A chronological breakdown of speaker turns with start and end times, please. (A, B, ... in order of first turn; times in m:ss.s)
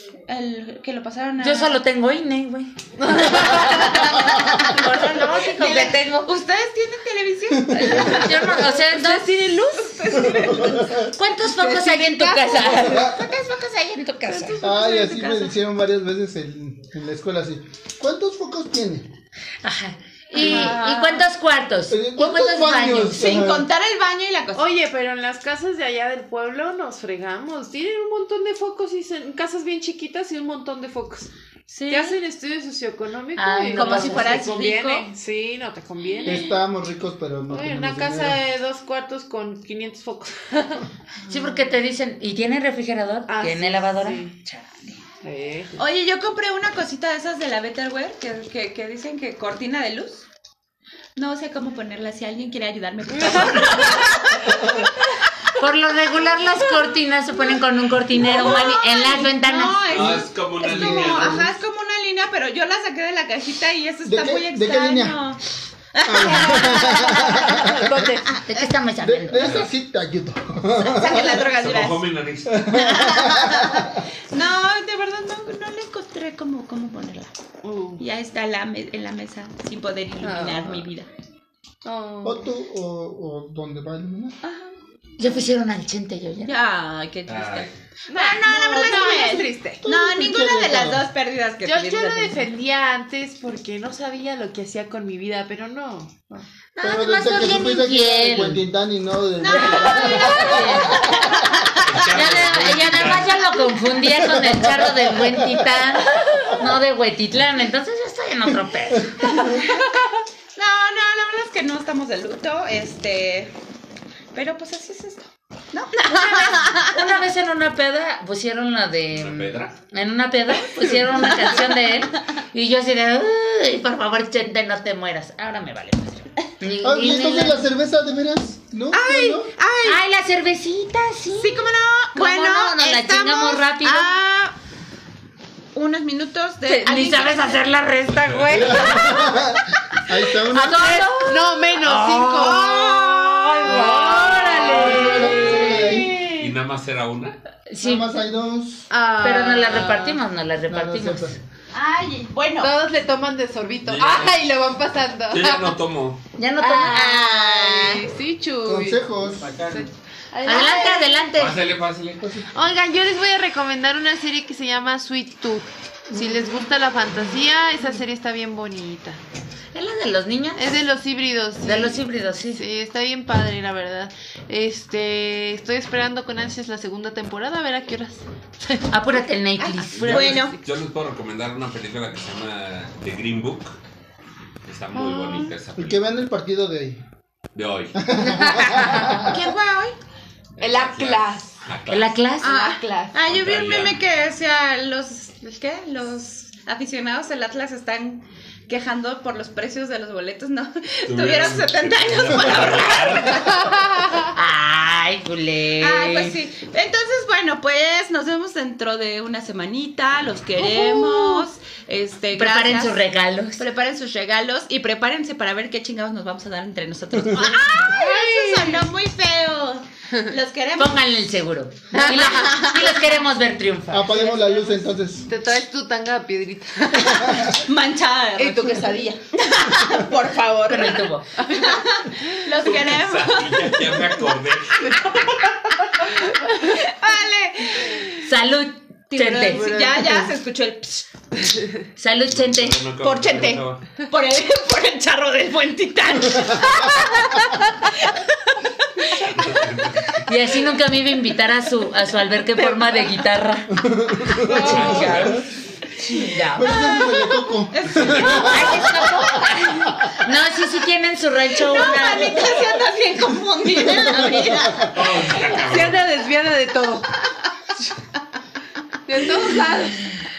0:00.3-0:01.8 A
0:01.4-0:06.3 B
0:03.0-0:05.9 C
0:03.3-0:08.6 A
0:07.6-0:08.5 D
0:07.9-0:09.5 B
0:08.6-0:10.6 C
0:09.7-0:10.9 A
0:10.2-0:11.1 D
0:11.1-0:14.6 B
0:11.6-0:12.8 C
0:12.6-0:14.7 A
0:12.6-0:13.2 D
0:14.3-0:15.5 C
0:14.6-0:19.1 D
0:19.6-0:23.4 B
0:20.4-0:21.2 A
0:20.4-0:20.7 D
0:21.9-0:23.7 D
0:23.2-0:24.7 A
0:24.6-0:31.3 C
0:31.7-0:32.2 B
0:31.9-0:36.5 C
0:33.4-0:34.5 B
0:33.8-0:35.1 A
0:36.2-0:36.4 A
0:36.2-0:38.4 D
0:37.5-0:41.7 C
0:41.3-0:45.0 B
0:43.3-0:44.3 C
0:45.2-0:45.8 C
0:45.8-0:50.2 A
0:51.2-0:54.8 A
0:53.1-0:54.2 C
0:54.5-0:54.8 D
0:55.6-0:59.8 B
0:58.2-1:05.4 A
0:58.3-0:58.7 C
0:59.9-1:01.5 E
1:00.7-1:01.5 D
1:04.1-1:05.2 D
1:05.9-1:07.6 A
1:06.0-1:08.2 D
1:06.5-1:08.4 C
1:08.4-1:09.6 B
1:09.0-1:11.4 D
1:09.4-1:09.7 E
1:10.8-1:12.1 A
1:11.6-1:12.6 E
1:12.5-1:14.0 D
1:12.7-1:17.3 A
1:17.6-1:18.0 C
1:18.0-1:21.1 A
1:20.2-1:20.7 C
1:21.8-1:22.5 C
1:22.2-1:24.4 D
1:24.4-1:24.7 A
1:25.2-1:26.5 B
1:26.4-1:32.5 A
1:27.3-1:27.7 E
1:28.1-1:29.8 C
1:29.8-1:31.0 D
1:31.6-1:36.5 C
1:36.8-1:38.6 B
1:36.8-1:41.5 D
1:39.4-1:41.8 A
1:39.8-1:40.7 C
1:39.9-1:41.0 B
1:41.8-1:43.5 E
1:42.1-1:49.3 B
1:44.2-1:45.8 D
1:49.2-1:49.5 D
1:50.6-1:53.5 A
1:54.3-1:57.0 A
1:56.8-2:07.6 B
1:59.1-1:59.8 E
2:06.8-2:09.5 D
2:08.9-2:10.0 A
2:09.8-2:14.1 B
2:11.4-2:14.6 A
2:15.8-2:17.7 A
2:16.7-2:19.2 B
2:18.1-2:18.9 E
2:18.5-2:21.1 D
2:20.5-2:26.0 B
2:21.0-2:26.5 C
2:22.2-2:23.8 A
2:23.7-2:26.2 D
2:24.7-2:27.4 E
2:27.7-2:28.1 B
2:27.8-2:28.9 D
2:28.9-2:30.2 C
2:29.2-2:31.4 B
2:30.7-2:31.4 D
2:31.7-2:32.7 A
2:32.6-2:35.7 C
2:33.8-2:34.4 E
2:35.3-2:36.2 E
2:36.4-2:37.4 B
2:36.6-2:39.0 C
2:36.9-2:38.1 A
2:38.6-2:39.5 D
2:39.4-2:39.9 E
2:39.7-2:41.2 C
2:40.4-2:41.6 B
2:41.4-2:42.4 E
2:42.2-2:42.6 D
2:42.5-2:49.2 C
2:49.7-2:50.7 B
2:50.6-2:52.0 C
2:51.6-2:52.6 B
2:52.5-2:58.9 C
2:58.9-3:00.4 B
2:59.6-3:00.6 A
2:59.9-3:03.8 E
3:00.1-3:00.6 C
3:04.6-3:06.0 E
3:05.0-3:05.5 C
3:05.8-3:07.0 D
3:07.6-3:08.0 E
3:08.0-3:09.4 D
3:08.2-3:08.9 B
3:08.6-3:09.2 C
3:09.2-3:10.0 A
3:10.6-3:12.2 E
3:10.6-3:11.6 C
3:11.9-3:12.5 B
3:12.4-3:23.5 A
3:12.4-3:13.2 C
3:13.3-3:14.0 E
3:21.1-3:23.5 E
3:23.4-3:24.3 C
3:24.3-3:26.4 B
3:25.8-3:33.0 A
3:30.6-3:31.5 C
3:32.4-3:33.6 B
3:33.6-3:41.0 A
3:37.8-3:38.8 C
3:40.8-3:44.3 B
3:41.9-3:42.6 C
3:42.2-3:42.9 A
3:43.9-3:45.3 D
3:44.1-3:47.6 C
3:47.0-3:47.5 D
3:47.6-3:54.0 A
3:48.4-3:49.2 C
3:50.7-3:51.2 B
3:51.4-3:52.1 C
3:52.6-3:55.2 E
3:56.0-3:56.6 C
3:56.6-3:58.3 A
3:58.2-3:59.7 B
3:59.1-4:01.1 A
3:59.5-4:00.3 D
4:02.0-4:02.8 B
4:02.3-4:03.8 E
4:03.0-4:08.3 A
4:09.0-4:09.3 A
4:09.2-4:10.2 E
4:10.2-4:15.4 B
4:13.7-4:15.4 D
4:14.4-4:15.4 E
4:14.5-4:15.0 C
4:16.0-4:16.8 B
4:16.5-4:20.1 D
4:16.7-4:19.1 A
4:17.8-4:18.6 E
4:18.5-4:22.5 B
4:21.6-4:24.9 A
4:23.8-4:24.9 D
4:24.2-4:24.5 B
4:24.9-4:26.0 E
4:25.5-4:27.1 C
4:29.1-4:30.1 C